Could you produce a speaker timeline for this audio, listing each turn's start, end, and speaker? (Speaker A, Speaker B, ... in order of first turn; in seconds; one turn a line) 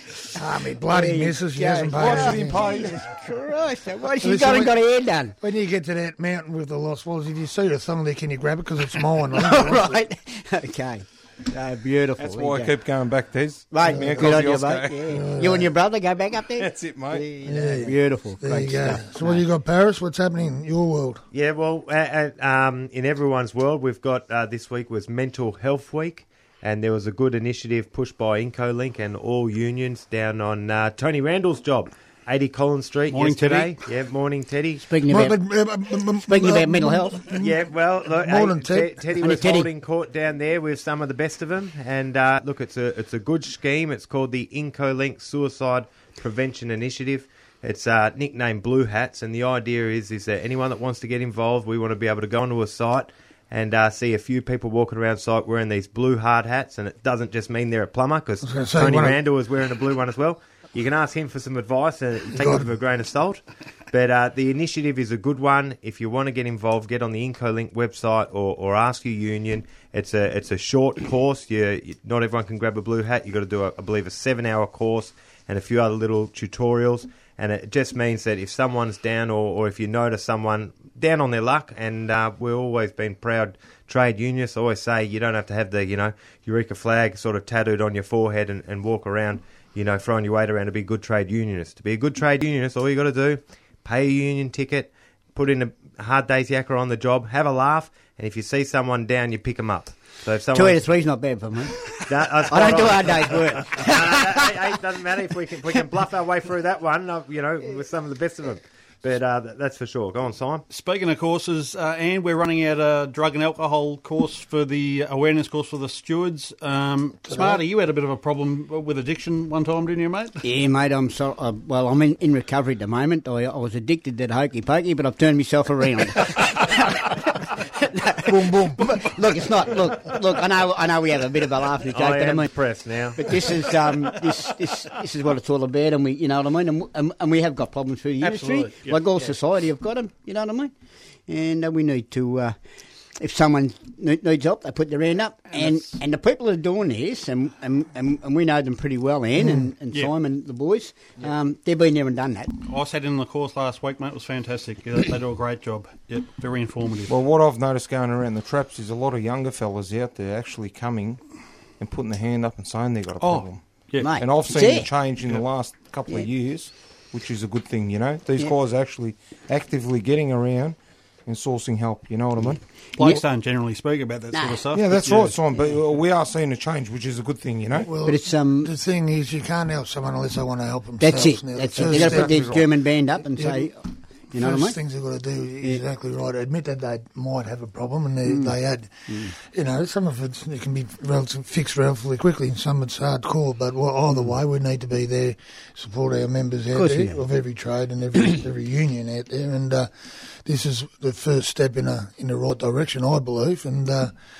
Speaker A: 0.3-2.7
Speaker B: 0.8-5.3
Speaker C: 1.9-3.1
Speaker A: 4.2-4.8
Speaker A: 5.4-10.0
Speaker B: 9.3-12.7
Speaker C: 12.2-15.2
Speaker B: 13.7-19.4
Speaker A: 13.9-14.4
Speaker A: 15.1-15.7
Speaker C: 16.6-17.3
Speaker A: 17.4-21.2
Speaker D: 21.3-34.8
Speaker E: 33.1-33.8
Speaker B: 34.8-35.4
Speaker A: 35.1-39.0
Speaker B: 36.2-37.3
Speaker D: 37.3-100.8
Speaker B: 39.2-39.7
Speaker A: 58.4-59.2
Speaker A: 62.3-62.7
Speaker B: 100.5-104.5
Speaker D: 101.9-110.6
Speaker E: 110.7-120.4
Speaker B: 120.4-132.5
Speaker A: 128.2-128.9
Speaker D: 131.9-133.6
Speaker B: 133.1-140.7
Speaker E: 138.2-139.0
Speaker B: 141.3-142.5
Speaker B: 143.2-152.6
Speaker E: 152.7-157.1
Speaker C: 157.1-161.2
Speaker C: 161.8-172.6
Speaker E: 163.2-164.2
Speaker B: 164.0-164.9
Speaker E: 172.9-175.4
Speaker B: 173.0-173.2
Speaker B: 174.3-174.6
Speaker C: 174.7-177.9
Speaker A: 177.8-182.6
Speaker B: 178.0-178.7
Speaker B: 181.0-183.8
Speaker C: 181.8-182.7
Speaker A: 183.3-183.7
Speaker B: 184.3-184.8
Speaker A: 184.3-204.1
Speaker B: 188.2-188.5
Speaker B: 189.1-189.3
Speaker B: 196.7-197.2